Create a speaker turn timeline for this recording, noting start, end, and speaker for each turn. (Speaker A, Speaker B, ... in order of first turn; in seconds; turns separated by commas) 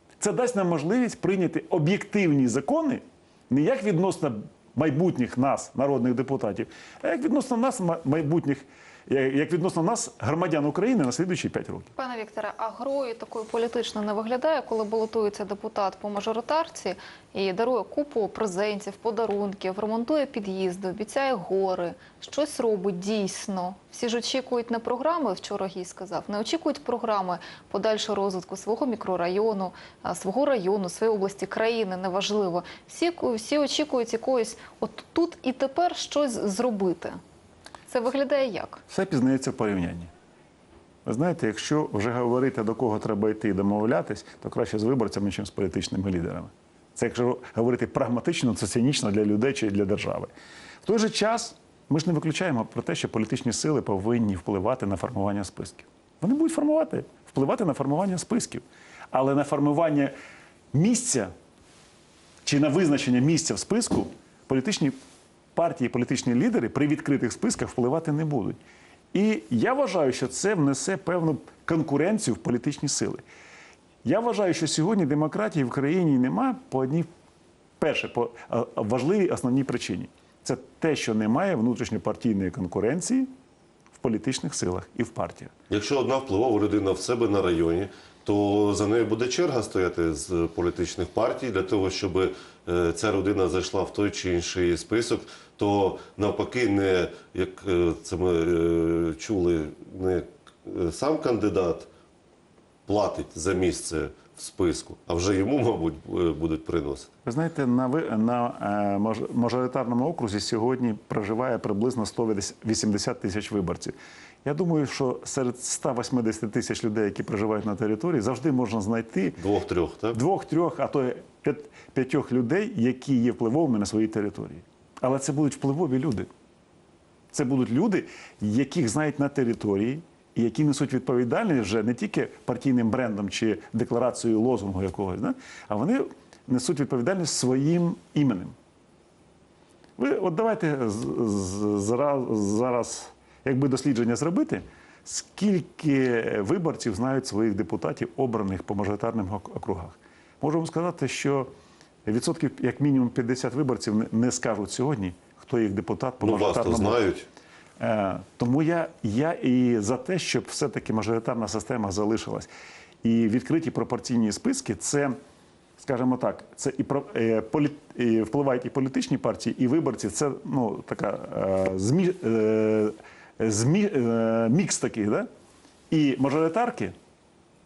Speaker A: 0.2-11.9, Speaker B: 11.9-37.2, Speaker B: 37.9-38.8, Speaker A: 38.9-40.1, Speaker A: 41.0-50.3, Speaker A: 50.8-60.1, Speaker A: 60.7-61.3, Speaker A: 62.4-64.9, Speaker A: 65.5-68.6, Speaker A: 69.1-73.2, Speaker A: 74.0-77.1, Speaker A: 77.8-83.3, Speaker A: 83.9-85.5, Speaker C: 85.7-101.9, Speaker C: 102.9-107.1, Speaker A: 107.2-119.4, Speaker C: 119.4-120.2, Speaker A: 120.1-126.3, Speaker A: 127.3-138.5, Speaker A: 140.0-151.5, Speaker A: 152.1-157.1, Speaker C: 156.2-157.3, Speaker A: 157.8-162.5, Speaker A: 163.0-165.1, Speaker A: 165.8-175.3, Speaker A: 175.9-176.9